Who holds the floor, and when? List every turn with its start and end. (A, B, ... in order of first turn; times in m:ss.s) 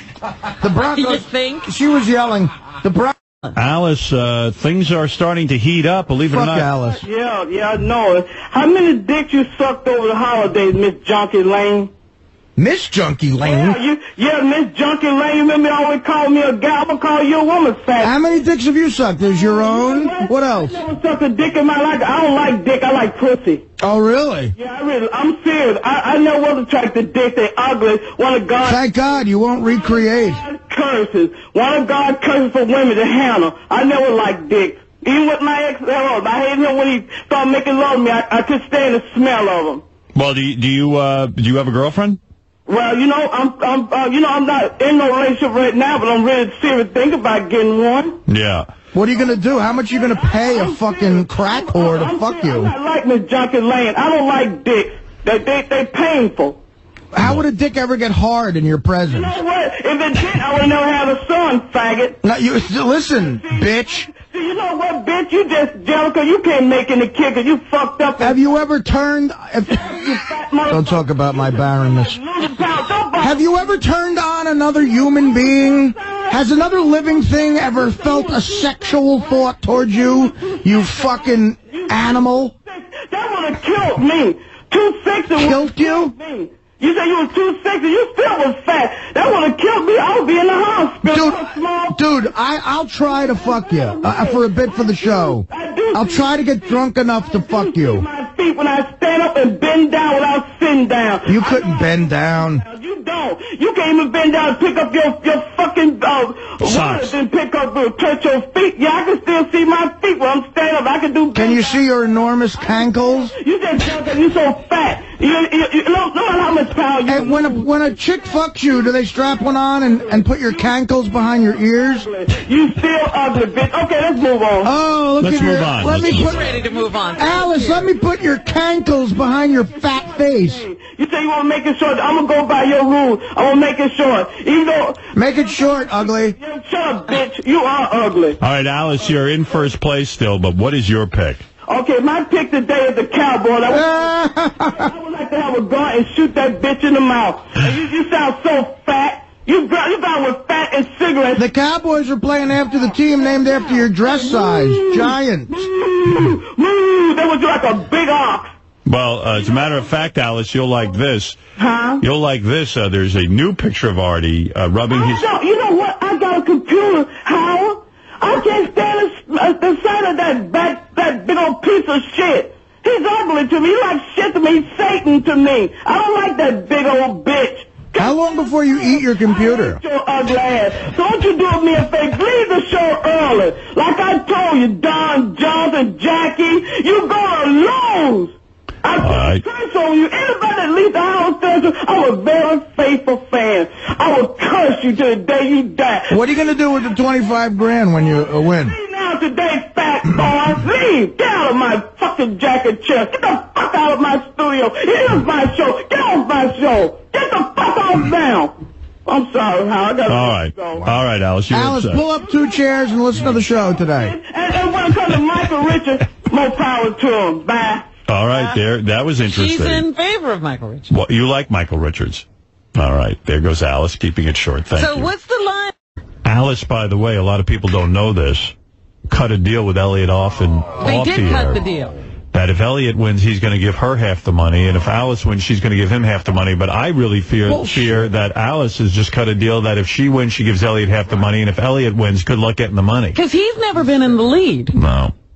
0:00.5-0:03.2 A
0:00.9-0:01.7 B
0:03.5-0:06.7 C
0:06.3-0:07.0 A
0:07.0-0:11.9 D
0:12.6-0:13.8 A
0:13.4-0:18.1 D
0:18.0-0:20.8 A
0:19.5-0:23.6 D
0:23.8-0:24.5 A
0:24.6-0:28.8 D
0:28.6-0:30.4 A
0:29.6-0:39.8 D
0:40.1-0:42.2 C
0:42.7-0:48.2 D
0:48.3-0:48.7 C
0:48.9-0:52.7 A
0:50.0-0:56.6 D
0:57.1-0:59.4 A
0:59.1-1:02.2 D
1:02.2-1:04.1 A
1:03.4-1:08.4 D
1:08.2-1:12.2 A
1:09.8-1:11.0 D
1:11.6-1:13.4 D
1:13.2-1:22.5 A
1:15.8-1:16.4 D
1:17.6-1:22.1 D
1:22.7-1:32.0 D
1:25.3-1:26.1 A
1:31.0-1:38.0 A
1:33.2-1:41.9 D
1:41.2-1:42.6 A
1:42.6-1:51.8 D
1:46.6-1:47.1 C
1:51.3-1:53.3 A
1:53.3-1:57.6 D
1:57.0-2:02.1 A
2:01.9-2:04.7 D
2:04.6-2:10.6 A
2:05.2-2:06.5 C
2:05.9-2:07.9 B
2:10.3-2:15.0 D
2:15.1-2:16.4 A
2:16.3-2:18.4 D
2:18.4-2:21.4 C
2:21.6-2:24.1 D
2:23.7-2:24.9 A
2:24.7-2:31.5 D
2:31.4-2:35.7 A
2:34.2-2:38.5 D
2:38.8-2:41.4 C
2:41.6-2:42.0 D
2:42.0-2:45.3 C
2:44.9-2:58.1 D
2:58.0-2:59.8 A
2:59.3-3:16.2 D
3:09.0-3:09.4 C
3:16.1-3:18.8 A
3:18.6-3:28.5 D
3:29.0-3:30.9 D
3:30.1-3:32.0 C
3:31.5-3:34.2 A
3:33.9-3:37.9 D
3:38.1-3:39.9 C
3:39.2-3:40.9 B
3:40.9-3:45.1 C
3:44.7-3:45.7 B
3:46.2-3:48.5 C
3:49.1-3:51.6 C
3:50.8-3:52.0 B
3:52.3-4:03.2 C
3:57.5-3:58.0 A
4:03.1-4:04.8 B
4:04.7-4:05.1 C